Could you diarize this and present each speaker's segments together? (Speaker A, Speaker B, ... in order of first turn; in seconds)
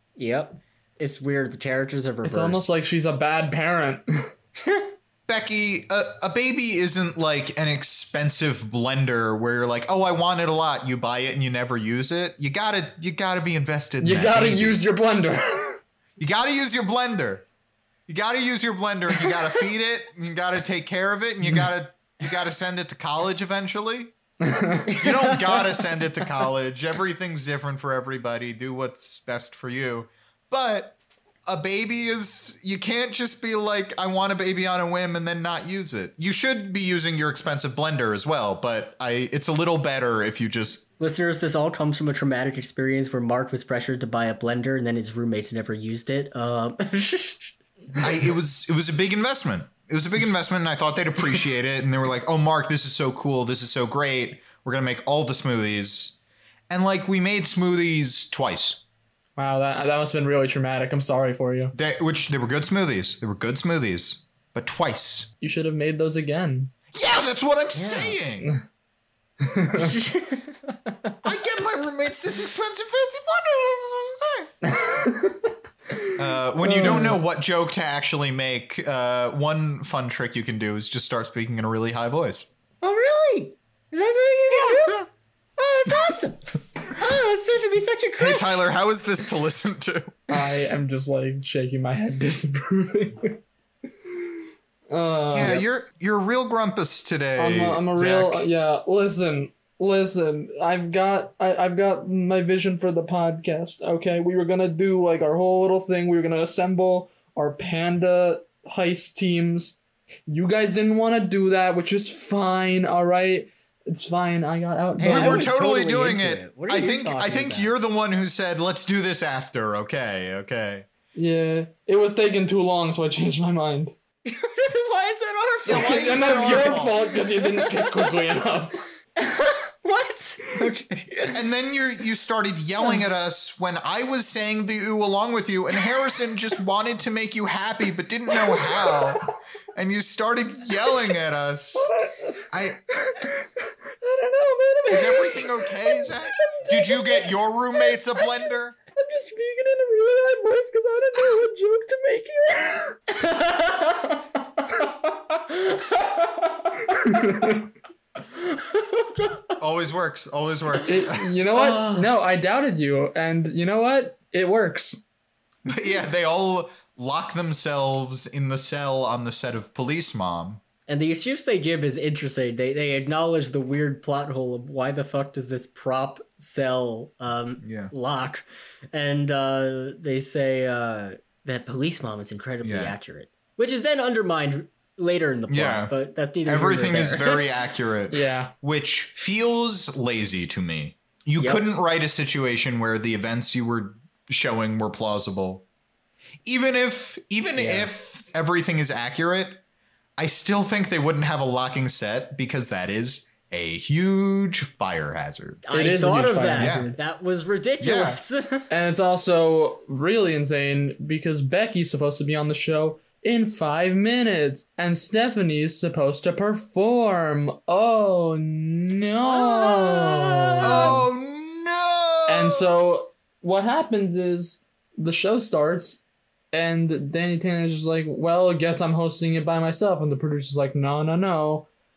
Speaker A: 0.2-2.6, 4.6-4.9, 24.9-25.6, 41.0-47.5, 67.7-68.2, 69.8-71.1, 82.8-85.1, 85.6-88.6, 115.0-117.7, 124.2-128.3, 129.2-131.4, 153.1-157.5, 158.3-159.5, 161.5-162.1, 170.9-187.4, 191.4-191.6, 197.6-197.9, 205.7-208.7, 219.3-221.0
Speaker B: 2.2-4.1, 14.0-15.8, 24.4-25.0, 59.4-61.7, 65.4-66.7, 69.4-70.0, 74.6-76.1, 76.6-77.2, 90.3-93.4, 94.9-95.6, 97.4-109.8, 110.3-115.5, 121.2-123.9, 125.7-128.8, 141.8-147.3, 148.2-153.0, 156.9-157.7, 160.9-165.0, 188.1-188.5, 205.7-206.9, 208.7-221.0, 222.3-226.0, 226.5-231.7
Speaker C: 5.3-14.8, 16.2-17.4, 18.1-24.1, 25.0-40.9, 48.0-56.2, 56.7-58.8, 61.7-65.3, 66.9-68.5, 71.2-74.5, 76.2-82.5, 84.5-85.0, 88.2-90.2, 95.3-98.5, 115.1-120.9, 125.7-127.0, 131.3-141.9, 142.5-142.8, 144.9-148.8, 159.6-161.3, 165.7-170.6, 177.6-177.9, 182.6-182.9, 185.5-185.9, 186.4-195.6, 196.5-199.6, 200.2-205.6, 206.6-206.9, 207.8-208.2, 220.6-222.7